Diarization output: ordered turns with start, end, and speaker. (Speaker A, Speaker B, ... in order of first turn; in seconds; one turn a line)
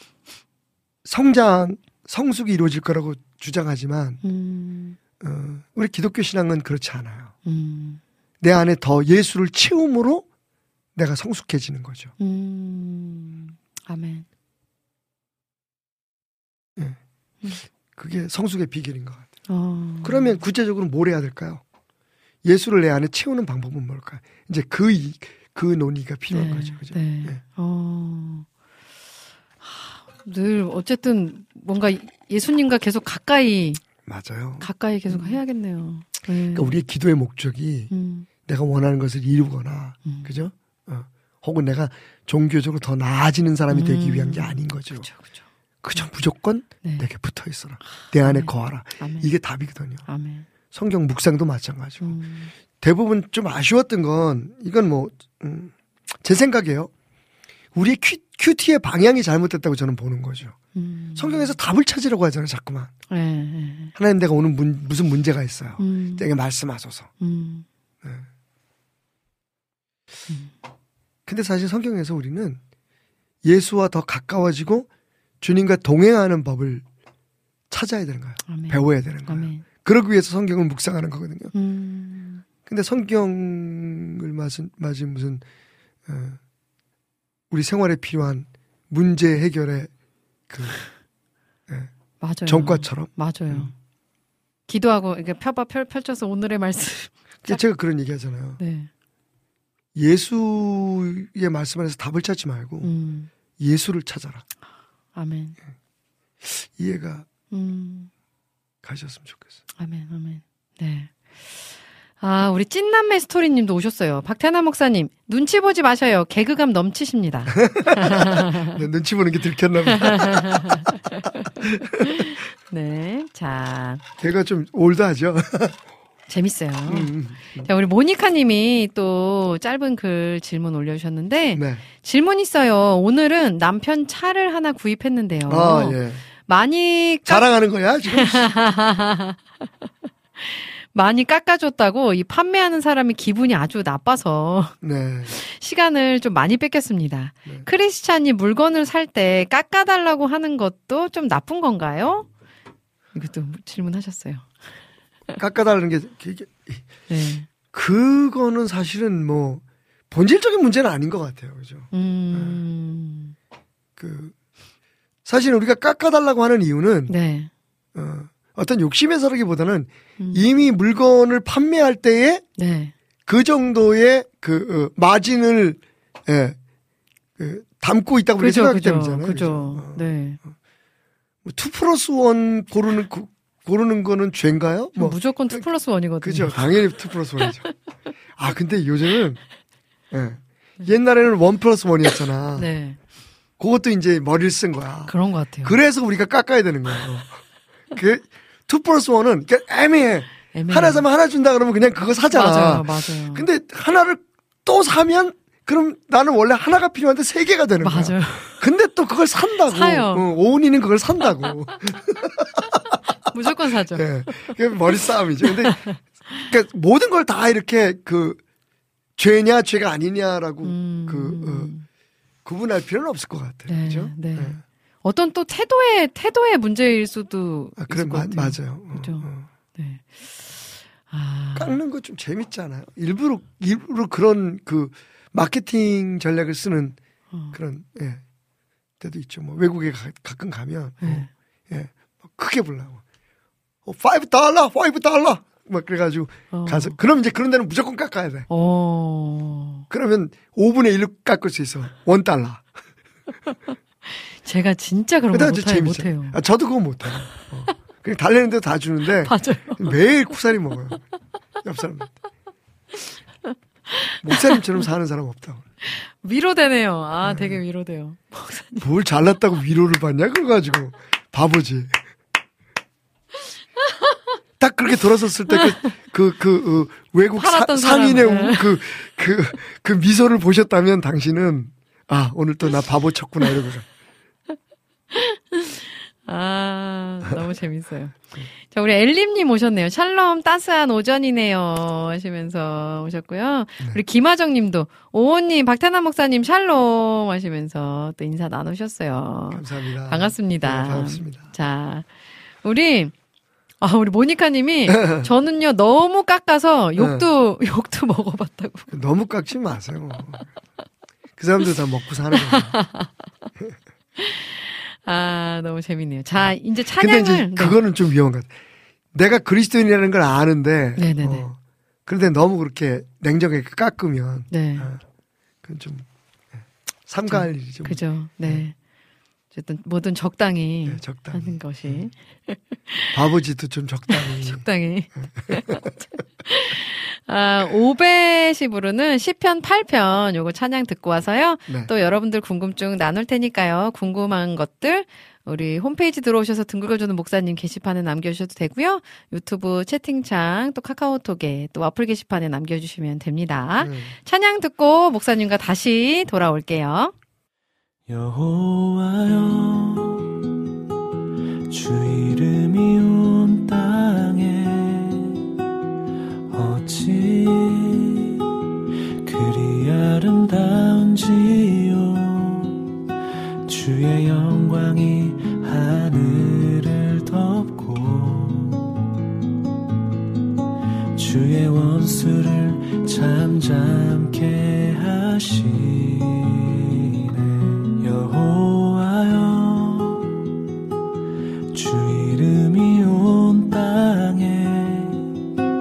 Speaker A: 1.0-4.2
Speaker B: 4.2-5.0
Speaker A: 5.2-7.3
Speaker B: 7.4-8.0
Speaker A: 8.4-10.2
Speaker A: 10.9-12.1
Speaker B: 12.2-14.2
Speaker A: 17.9-19.3
Speaker B: 19.5-20.4
Speaker A: 20.0-21.6
Speaker A: 22.4-27.4
Speaker B: 26.3-28.5
Speaker B: 29.6-33.8
Speaker A: 34.0-35.4
Speaker B: 34.6-36.7
Speaker A: 36.5-37.9
Speaker B: 37.9-38.3
Speaker A: 38.4-45.1
Speaker B: 40.0-40.3
Speaker B: 43.7-46.1
Speaker A: 45.8-50.0
Speaker B: 46.8-47.1
Speaker B: 48.0-49.3
Speaker B: 50.0-50.5
Speaker A: 50.7-52.2
Speaker B: 52.0-52.5
Speaker A: 52.7-56.9
Speaker A: 57.7-60.6
Speaker B: 60.7-61.5
Speaker A: 61.1-62.9
Speaker B: 63.1-63.9
Speaker A: 63.9-67.1
Speaker B: 65.8-66.2
Speaker B: 67.2-67.7
Speaker A: 71.2-72.6
Speaker A: 73.4-74.9
Speaker A: 75.4-76.8
Speaker A: 77.7-81.5
Speaker B: 78.5-79.6
Speaker B: 81.5-82.4
Speaker A: 82.7-85.4
Speaker A: 86.0-86.4
Speaker A: 87.5-89.9
Speaker A: 90.5-90.8
Speaker B: 92.2-93.7
Speaker A: 92.5-93.7
Speaker B: 94.7-97.6
Speaker A: 97.4-98.6
Speaker B: 98.6-98.9
Speaker A: 99.9-102.9
Speaker B: 102.8-103.3
Speaker A: 103.6-104.4
Speaker B: 105.1-105.6
Speaker A: 106.4-107.2
Speaker B: 107.5-108.1
Speaker A: 108.8-109.6
Speaker B: 109.8-118.8
Speaker A: 117.5-120.8
Speaker B: 119.9-124.0
Speaker A: 121.6-122.2
Speaker A: 124.2-125.8
Speaker B: 126.3-127.1
Speaker A: 126.9-127.7
Speaker B: 127.6-137.5
Speaker A: 131.5-131.8
Speaker A: 135.5-136.2
Speaker A: 137.2-138.5
Speaker B: 138.1-139.7
Speaker B: 140.4-144.8
Speaker A: 144.8-145.4
Speaker B: 145.3-152.3
Speaker B: 153.1-154.5
Speaker A: 155.4-156.9
Speaker B: 157.1-157.5
Speaker A: 157.7-162.6
Speaker B: 161.9-163.3
Speaker A: 164.0-164.3
Speaker A: 165.2-167.1
Speaker B: 167.1-167.5
Speaker A: 167.9-172.4
Speaker B: 170.2-170.4
Speaker B: 172.6-172.9
Speaker A: 173.2-176.6
Speaker A: 177.4-180.5
Speaker B: 178.4-180.4
Speaker A: 181.4-185.7
Speaker B: 185.0-187.7
Speaker A: 186.2-187.7
Speaker A: 188.4-189.4
Speaker A: 190.1-192.7
Speaker B: 192.6-193.0
Speaker A: 193.6-212.5
Speaker B: 195.1-195.8
Speaker B: 200.5-201.0
Speaker B: 202.3-203.4
Speaker B: 207.8-208.6
Speaker B: 209.7-210.2
Speaker B: 213.3-214.6
Speaker A: 213.9-218.4
Speaker B: 215.4-216.4
Speaker A: 219.2-221.7
Speaker B: 220.6-221.8
Speaker A: 222.4-224.6
Speaker B: 223.7-231.8
Speaker A: 227.8-229.5
Speaker A: 231.5-237.0
Speaker B: 237.3-237.6
Speaker A: 237.5-238.2
Speaker A: 239.0-243.0
Speaker B: 241.0-241.3
Speaker A: 243.8-248.5
Speaker B: 246.5-247.0
Speaker B: 248.5-249.9
Speaker A: 249.9-252.7
Speaker B: 254.1-256.4
Speaker A: 255.3-261.0
Speaker B: 259.2-260.0
Speaker A: 261.6-262.1
Speaker B: 263.4-264.6
Speaker A: 264.2-265.6
Speaker B: 265.8-268.8
Speaker A: 267.2-267.6
Speaker A: 268.8-272.0
Speaker A: 274.6-283.9
Speaker B: 277.3-278.8
Speaker B: 285.1-302.1
Speaker A: 299.5-301.5
Speaker B: 302.6-303.1
Speaker B: 303.8-308.9
Speaker A: 304.9-305.3
Speaker A: 306.9-307.3
Speaker A: 308.9-310.5
Speaker A: 311.4-312.8
Speaker B: 312.3-313.1
Speaker B: 314.2-317.8
Speaker A: 316.4-318.5
Speaker A: 319.1-325.0
Speaker B: 321.0-321.5
Speaker B: 324.5-324.9
Speaker A: 325.6-328.6
Speaker B: 327.3-328.8
Speaker B: 329.5-333.1
Speaker A: 330.9-332.1
Speaker A: 333.1-335.9
Speaker B: 334.1-357.1
Speaker A: 353.8-354.1
Speaker C: 358.1-360.3
Speaker C: 361.7-365.3
Speaker C: 366.5-368.3
Speaker C: 369.2-372.8
Speaker C: 373.6-378.9
Speaker C: 381.1-390.3
Speaker C: 391.7-395.2